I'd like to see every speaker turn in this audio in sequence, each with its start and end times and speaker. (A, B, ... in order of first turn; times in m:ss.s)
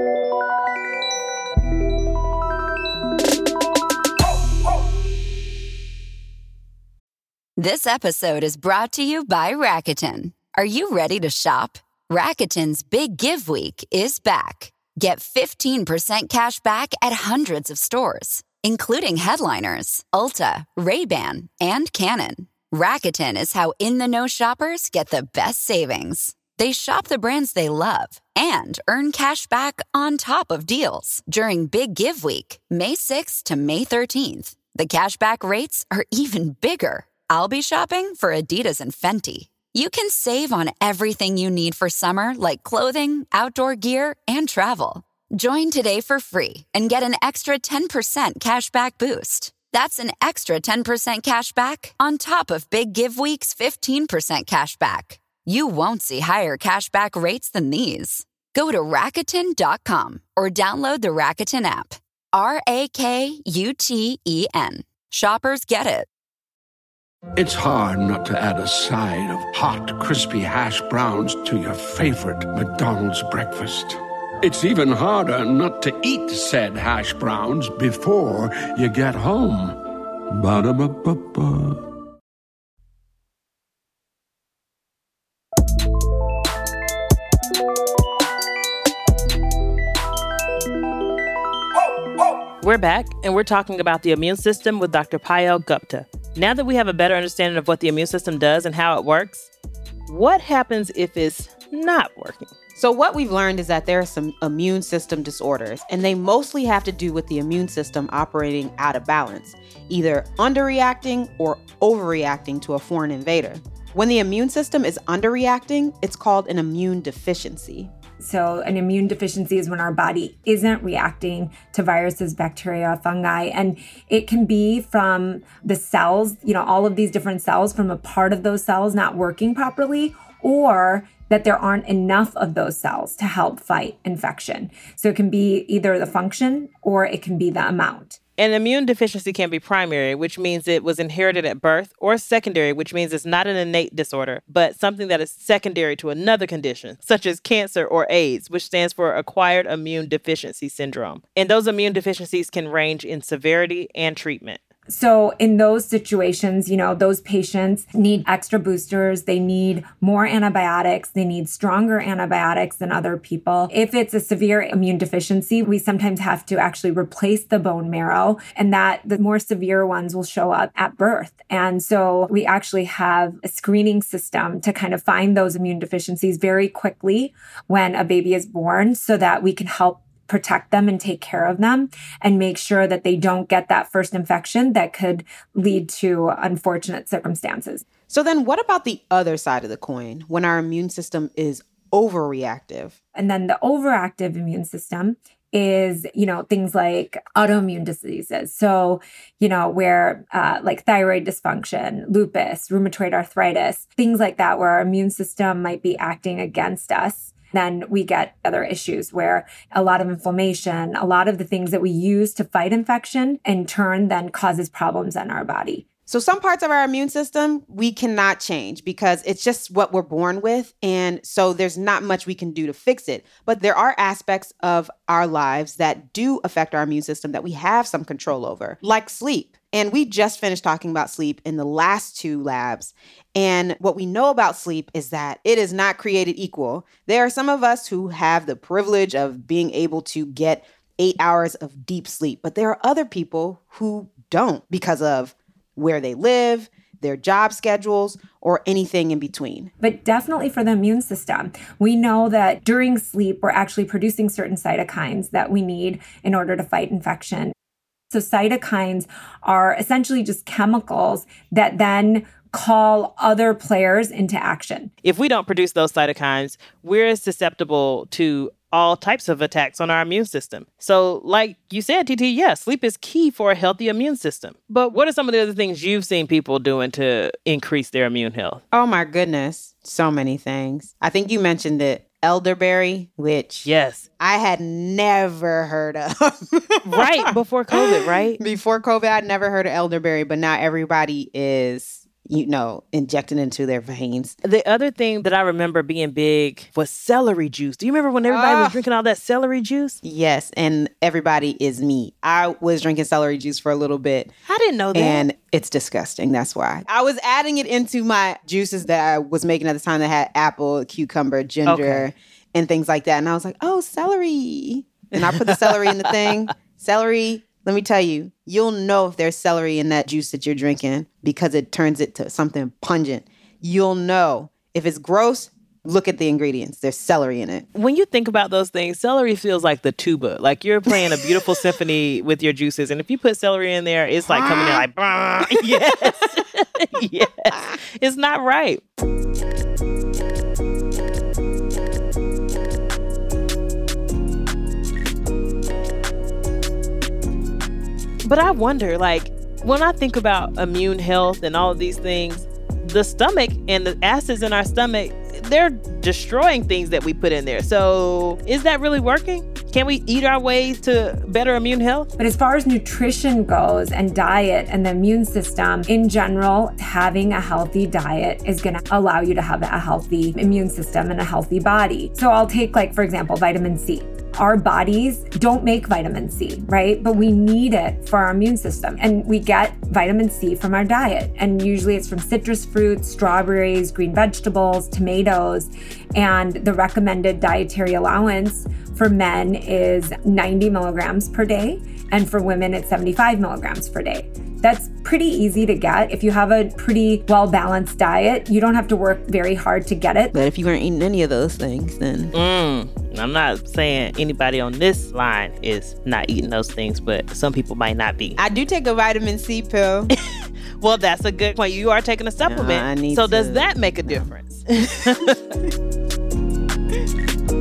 0:07.6-1:06.1 A
1:07.4-1:19.8 B
1:20.3-1:21.8 B
1:32.6-1:39.5 C
1:40.1-1:42.5 C
1:42.8-1:57.9 D
1:58.2-2:18.2 E
2:18.4-2:34.6 C
2:34.9-3:07.8 E
3:08.1-3:13.0 D
3:13.1-3:35.8 E
3:36.1-4:09.7 D
4:09.8-4:17.5 E
4:18.1-4:24.9 E
4:25.0-4:38.6 C
4:38.7-4:43.7 D
4:43.6-4:44.0 C
4:44.2-4:54.4 D
4:46.8-4:48.4 C
4:54.4-5:00.0 C
4:58.2-4:58.8 D
5:00.0-5:04.3 D
5:04.5-5:05.3 C
5:04.9-5:27.6 D
5:11.7-5:12.1 C
5:15.2-5:16.1 C
5:27.7-5:38.8 C
5:30.9-5:31.3 D
5:34.3-5:34.8 D
5:35.4-5:35.9 D
5:48.2-6:02.1 C
6:02.2-6:40.3 E
6:40.3-6:42.3 D
6:42.3-6:48.4 C
6:48.4-6:50.1 D
6:50.8-6:55.4 C
6:52.4-6:54.3 D
6:55.0-6:55.3 D